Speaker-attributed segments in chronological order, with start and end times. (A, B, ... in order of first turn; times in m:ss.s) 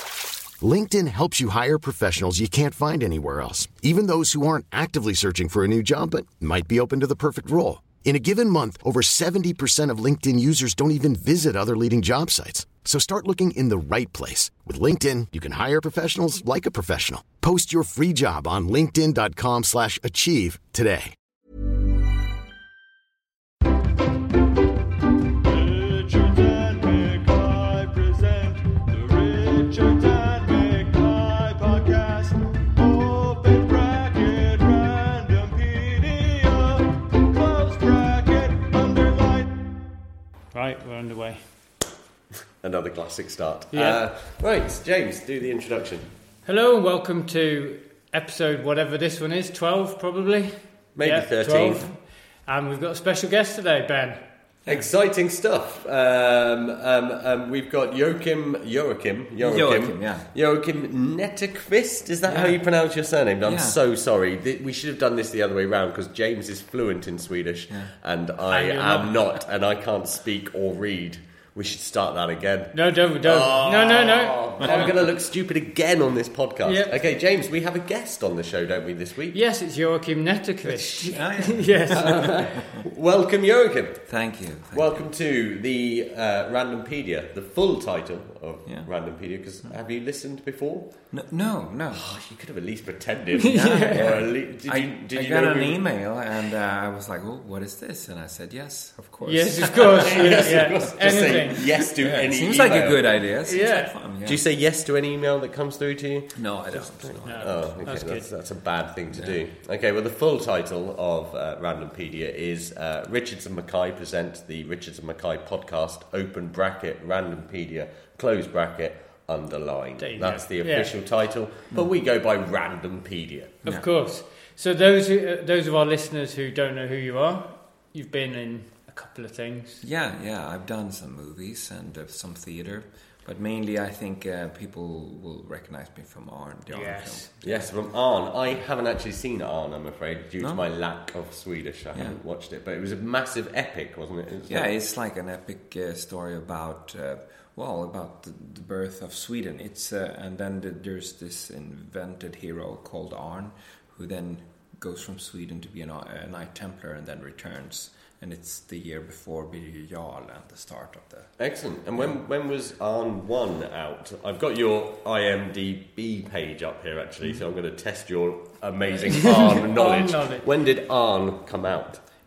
0:00.6-0:21.1 A
0:25.4-0:39.5 B
0:40.5-0:41.4 C
0:42.6-0:46.1 D
0:43.7-0:44.0 C
0:46.4-0:54.2 C
0:51.0-0:51.9 D
0:54.7-1:19.4 D
0:59.4-1:00.2 E
1:02.2-1:02.6 E
1:03.4-1:03.8 E
1:08.5-1:09.2 C
1:12.7-1:14.9 C
1:16.6-1:17.0 C
1:19.3-1:22.2 C
1:20.6-1:22.6 E
1:21.9-1:24.1 D
1:24.1-1:25.0 E
1:24.7-1:30.9 D
1:31.1-1:32.0 E
1:31.9-1:35.9 D
1:33.4-1:34.1 C
1:33.7-1:40.7 E
1:39.2-1:41.6 C
1:39.7-1:43.3 D
1:41.6-1:44.4 E
1:43.4-1:43.9 C
1:44.2-2:03.6 D
1:46.3-1:48.1 E
1:47.2-1:48.3 C
1:49.1-1:49.4 E
2:00.0-2:00.9 C
2:03.6-2:09.8 C
2:09.8-2:17.5 E
2:16.7-2:17.3 C
2:17.4-2:24.7 D
2:24.5-2:41.3 E
2:41.4-2:52.0 D
2:49.1-2:50.5 C